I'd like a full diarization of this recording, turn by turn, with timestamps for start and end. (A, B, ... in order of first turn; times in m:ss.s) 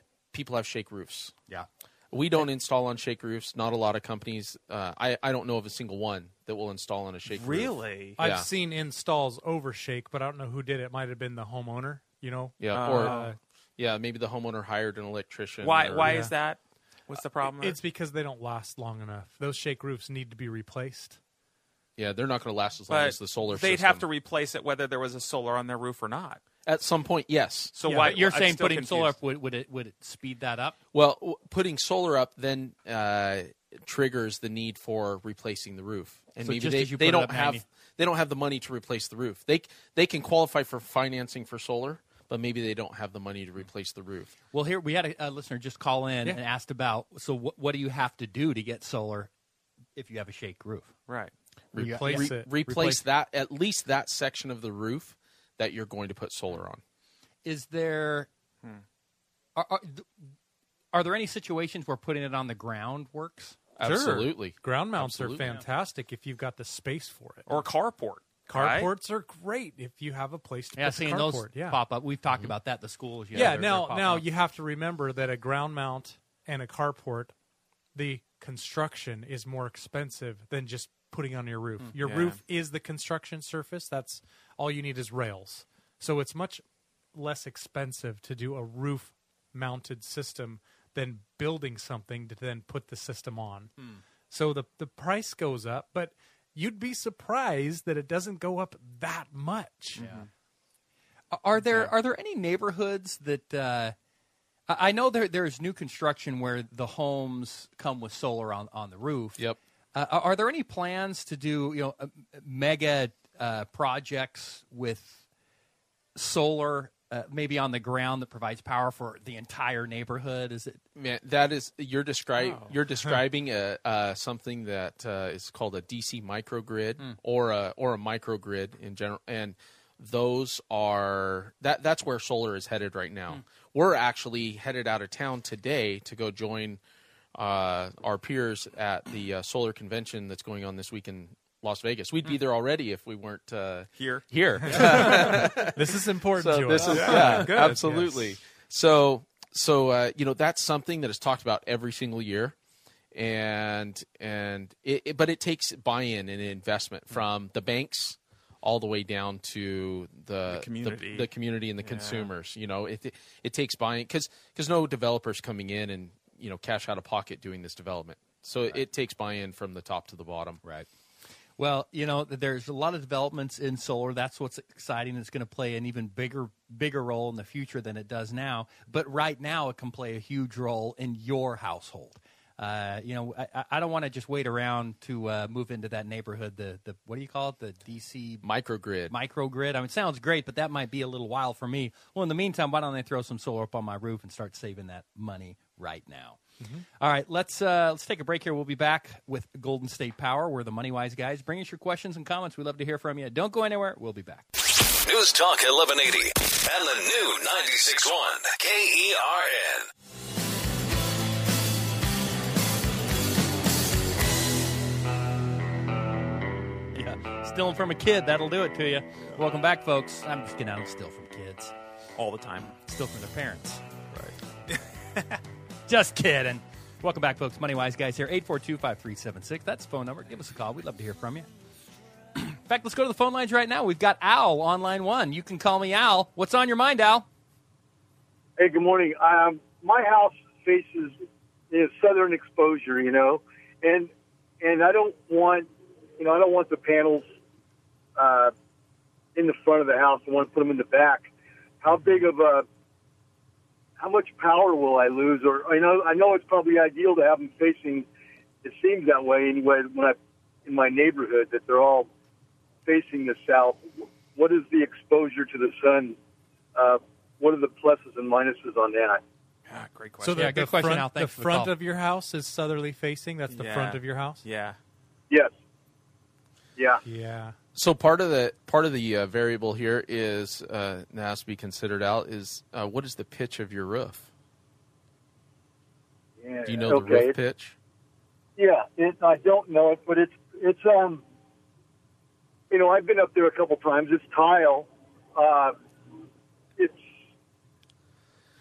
0:00.3-0:01.3 A
0:02.1-0:08.5 A
0:07.3-0:08.2 B
0:08.2-0:13.4 C
0:12.6-0:13.2 A
0:12.7-0:13.3 B
0:13.8-0:16.1 A
0:15.6-0:17.8 B
0:16.0-0:16.3 C
0:17.1-0:21.2 C
0:22.0-0:24.0 A
0:22.9-0:26.4 B
0:26.6-0:27.7 A
0:27.7-0:29.2 B
0:27.8-0:28.1 C
0:27.9-0:30.8 D
0:30.9-0:44.3 A
0:36.4-0:37.6 D
0:44.5-0:49.3 D
0:49.9-0:50.9 D
0:51.7-0:56.8 A
0:51.8-0:52.3 D
0:51.8-0:53.0 C
0:57.4-0:58.3 D
0:59.6-1:00.0 D
1:00.9-1:03.6 D
1:03.8-1:05.6 A
1:03.8-1:07.7 C
1:07.5-1:08.9 B
1:08.5-1:11.8 C
1:10.8-1:14.2 D
1:13.3-1:17.3 C
1:17.9-1:26.6 C
1:22.0-1:22.4 B
1:27.1-1:33.7 C
1:34.3-1:40.0 C
1:40.0-1:40.2 B
1:40.0-1:40.2 D
1:41.3-1:43.9 D
1:41.6-1:41.9 A
1:44.7-1:49.4 D
1:49.9-1:55.2 D
1:56.2-2:00.8 D
2:00.9-2:16.8 A
2:02.4-2:02.7 B
2:17.4-2:25.8 A
2:24.0-2:24.2 B
2:24.7-2:28.3 C
2:26.4-2:32.5 A
2:26.8-2:27.1 D
2:33.1-2:50.6 A
2:40.5-2:42.3 B
2:50.6-2:50.9 D
2:51.6-3:08.4 D
3:08.4-3:09.1 A
3:09.1-3:16.4 D
3:17.0-3:24.4 D
3:25.1-3:29.8 E
3:36.9-3:41.7 D
3:42.2-3:42.7 B
3:42.8-3:43.8 D
3:45.8-3:51.5 D
3:52.3-3:57.2 D
3:58.6-4:01.2 F
4:01.7-4:04.1 F
4:04.6-4:05.7 F
4:06.2-4:07.2 F
4:08.2-4:08.5 F
4:09.3-4:11.3 F
4:11.8-4:12.6 F
4:14.0-4:18.0 F
4:18.6-4:22.1 F
4:22.8-4:26.2 F
4:26.7-4:29.2 F
4:29.7-4:30.4 B
4:30.2-4:34.4 C
4:30.4-4:31.7 D
4:33.5-4:34.8 B
4:36.8-4:37.0 F
4:37.0-4:37.5 C
4:37.7-4:44.3 A
4:46.4-4:47.4 F
4:46.6-4:47.8 A
4:48.6-4:51.2 F
4:52.7-4:55.7 F